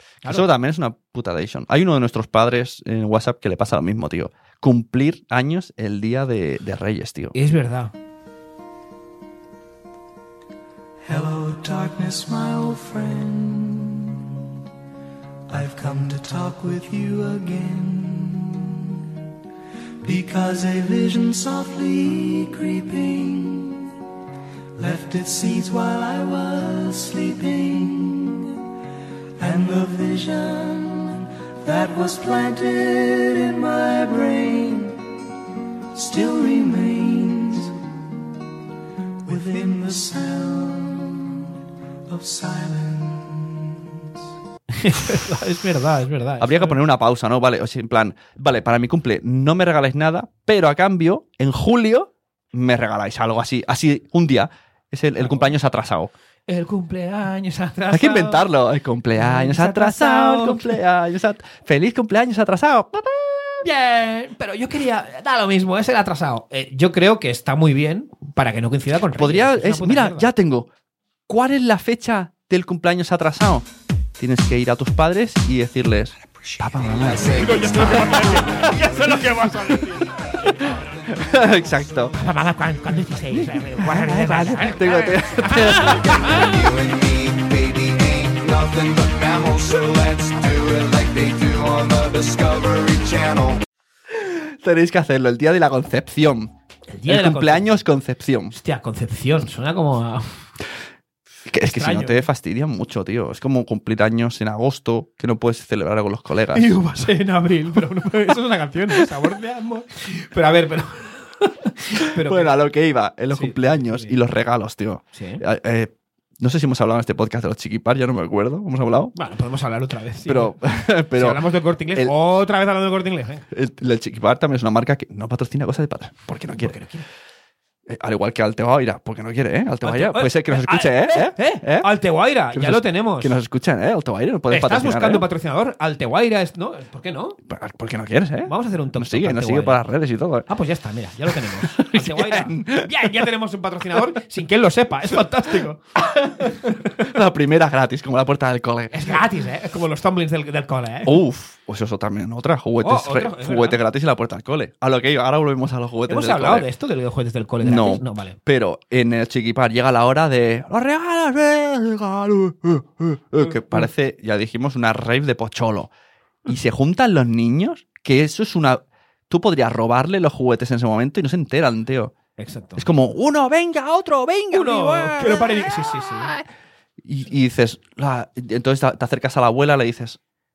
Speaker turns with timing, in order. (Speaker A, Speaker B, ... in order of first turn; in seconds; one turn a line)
Speaker A: 0.2-7.3
Speaker B: 7.3-7.9
Speaker C: 11.1-14.3
Speaker C: 15.5-18.9
Speaker C: 20.0-23.9
Speaker C: 24.8-28.6
Speaker C: 29.4-35.0
Speaker C: 35.9-37.8
Speaker C: 39.2-41.4
Speaker C: 42.1-43.8
Speaker B: 44.8-46.8
Speaker A: 46.4-56.1
Speaker B: 55.2-55.5
Speaker B: 56.5-58.4
Speaker A: 57.9-63.5
Speaker B: 59.1-60.8
Speaker B: 63.6-70.3
Speaker A: 69.1-70.7
Speaker A: 71.3-73.7
Speaker A: 74.2-80.0
Speaker C: 77.3-77.5
Speaker B: 77.3-80.7
Speaker A: 80.6-82.1
Speaker B: 82.1-86.5
Speaker A: 83.3-86.4
Speaker C: 86.2-93.6
Speaker A: 94.1-96.5
Speaker B: 96.9-97.8
Speaker A: 97.1-98.5
Speaker B: 98.5-100.4
Speaker A: 101.5-106.7
Speaker B: 101.6-102.2
Speaker B: 106.5-112.5
Speaker A: 112.2-119.1
Speaker B: 113.3-114.1
Speaker B: 115.1-115.4
Speaker B: 119.1-120.6
Speaker A: 120.2-122.1
Speaker B: 121.1-123.5
Speaker A: 123.5-126.8
Speaker B: 126.5-127.0
Speaker A: 127.8-131.9
Speaker B: 129.8-133.3
Speaker A: 132.5-135.3
Speaker B: 134.5-137.4
Speaker A: 137.5-140.5
Speaker B: 138.4-139.8
Speaker B: 140.5-145.8
Speaker A: 141.4-143.1
Speaker A: 146.0-149.2
Speaker B: 148.9-151.2
Speaker A: 151.0-156.7
Speaker B: 152.8-153.8
Speaker B: 156.1-158.3
Speaker A: 157.6-165.9
Speaker B: 163.4-163.8
Speaker A: 166.5-172.1
Speaker B: 172.4-172.9
Speaker A: 172.8-176.4
Speaker B: 174.5-176.3
Speaker A: 177.0-180.2